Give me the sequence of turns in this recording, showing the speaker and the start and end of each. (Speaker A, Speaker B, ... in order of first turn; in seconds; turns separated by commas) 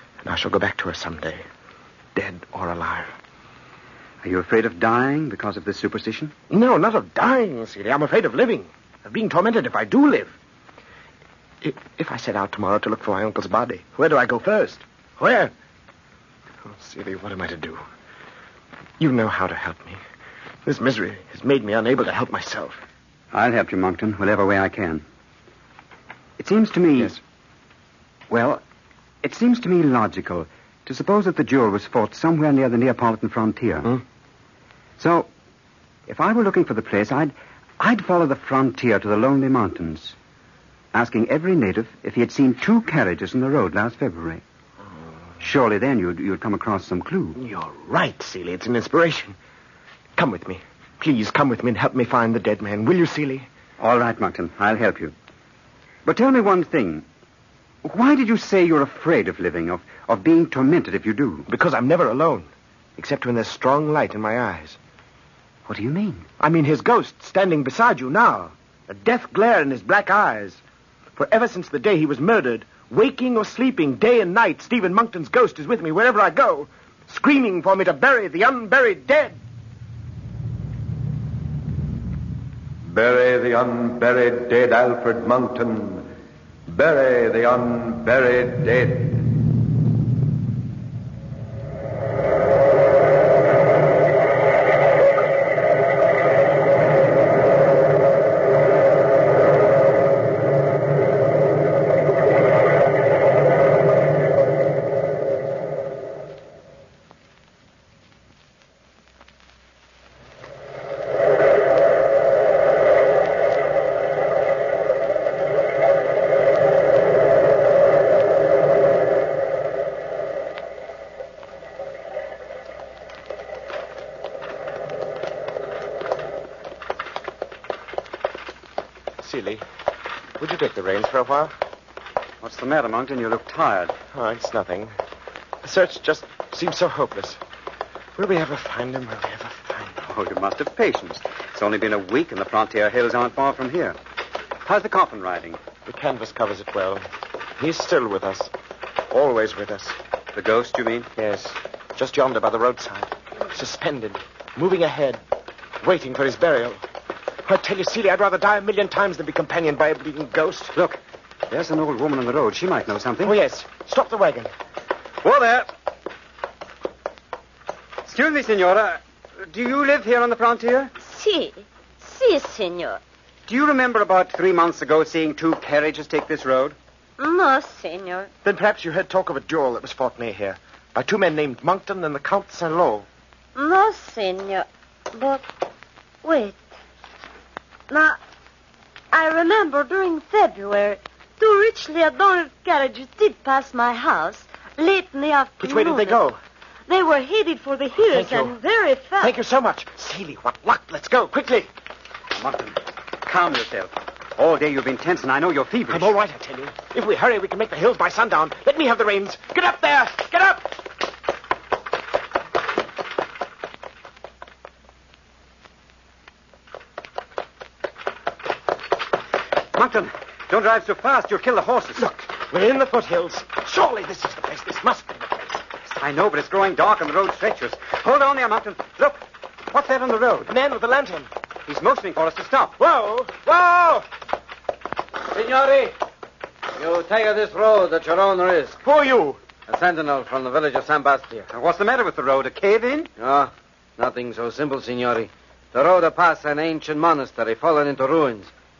Speaker A: 0.2-1.4, Speaker A: 2.1-3.1, Speaker B: 4.2-6.3, Speaker A: 6.5-10.3, Speaker A: 11.6-15.5, Speaker A: 16.6-17.8, Speaker A: 19.0-20.0, Speaker A: 20.6-22.8, Speaker B: 23.3-25.0, Speaker B: 26.4-27.2, Speaker B: 28.3-28.6, Speaker B: 29.2-34.0, Speaker B: 35.0-35.3, Speaker B: 36.1-40.1, Speaker B: 40.9-44.4, Speaker B: 45.4-47.4, Speaker A: 47.4-49.4, Speaker A: 50.2-53.5, Speaker B: 53.8-55.1, Speaker B: 56.0-57.0, Speaker B: 57.8-61.5, Speaker A: 61.5-64.8, Speaker B: 65.7-66.3, Speaker A: 66.4-70.6, Speaker A: 71.2-79.4, Speaker C: 82.8-86.1, Speaker C: 86.7-89.2, Speaker A: 129.2-129.6, Speaker A: 130.4-131.5, Speaker B: 132.4-133.9, Speaker A: 134.1-134.9, Speaker A: 135.6-137.4, Speaker A: 138.2-140.0, Speaker B: 140.1-144.0, Speaker B: 144.7-145.6, Speaker A: 145.9-147.1, Speaker A: 147.6-148.5, Speaker A: 149.1-150.0, Speaker B: 150.3-151.6, Speaker A: 152.0-155.2, Speaker A: 155.8-156.8, Speaker A: 157.4-160.8, Speaker B: 161.5-163.4, Speaker A: 163.2-164.5, Speaker B: 165.2-165.7, Speaker B: 168.1-170.9, Speaker D: 171.0-173.0, Speaker B: 173.5-176.8, Speaker D: 177.2-178.3, Speaker A: 178.4-183.1, Speaker D: 183.6-185.5, Speaker D: 186.2-186.6, Speaker D: 187.9-188.2, Speaker D: 189.1-196.2, Speaker A: 195.6-196.4, Speaker D: 196.9-199.4, Speaker A: 198.0-198.6, Speaker A: 199.2-201.7, Speaker B: 202.3-206.1, Speaker A: 205.9-210.7, Speaker B: 219.7-222.2, Speaker A: 222.0-225.6, Speaker B: 225.9-230.5, Speaker A: 230.5-231.3, Speaker B: 231.7-232.7, Speaker A: 232.8-234.1, Speaker E: 235.3-235.9, Speaker E: 236.8-238.8, Speaker A: 238.8-239.4, Speaker E: 239.7-241.5, Speaker B: 241.5-243.1, Speaker E: 243.2-248.5